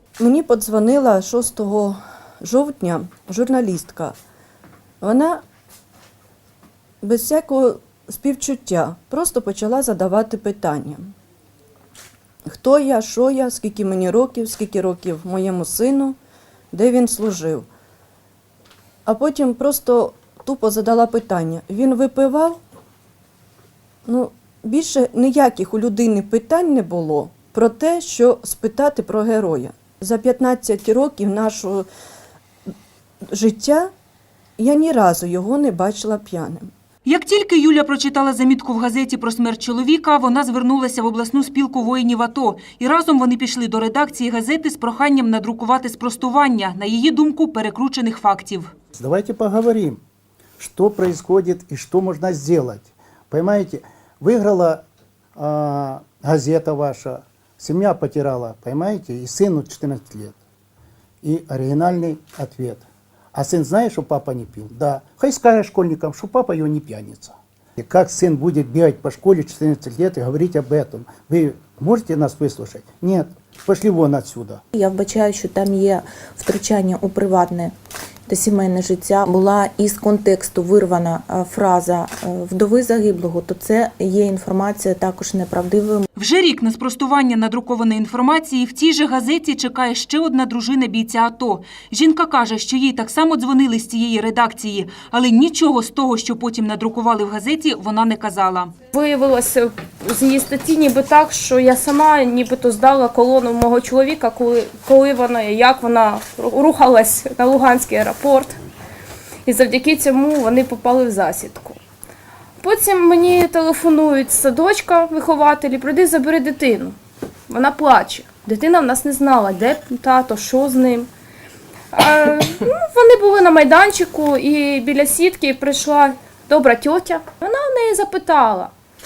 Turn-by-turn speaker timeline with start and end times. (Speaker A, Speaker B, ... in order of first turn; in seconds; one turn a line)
Speaker A: 0.2-4.2
Speaker A: 5.0-5.4
Speaker A: 7.0-11.1
Speaker A: 12.4-16.1
Speaker A: 16.7-17.7
Speaker A: 19.1-22.6
Speaker A: 24.1-31.9
Speaker A: 33.3-33.9
Speaker A: 34.6-36.7
Speaker B: 37.0-48.7
Speaker C: 48.9-50.0
Speaker C: 50.6-54.8
Speaker C: 55.4-60.4
Speaker C: 61.2-74.6
Speaker D: 74.7-77.7
Speaker D: 78.3-86.0
Speaker B: 86.2-98.7
Speaker E: 98.9-108.5
Speaker E: 109.5-111.8
Speaker E: 112.6-116.9
Speaker E: 117.5-121.1
Speaker E: 121.9-128.7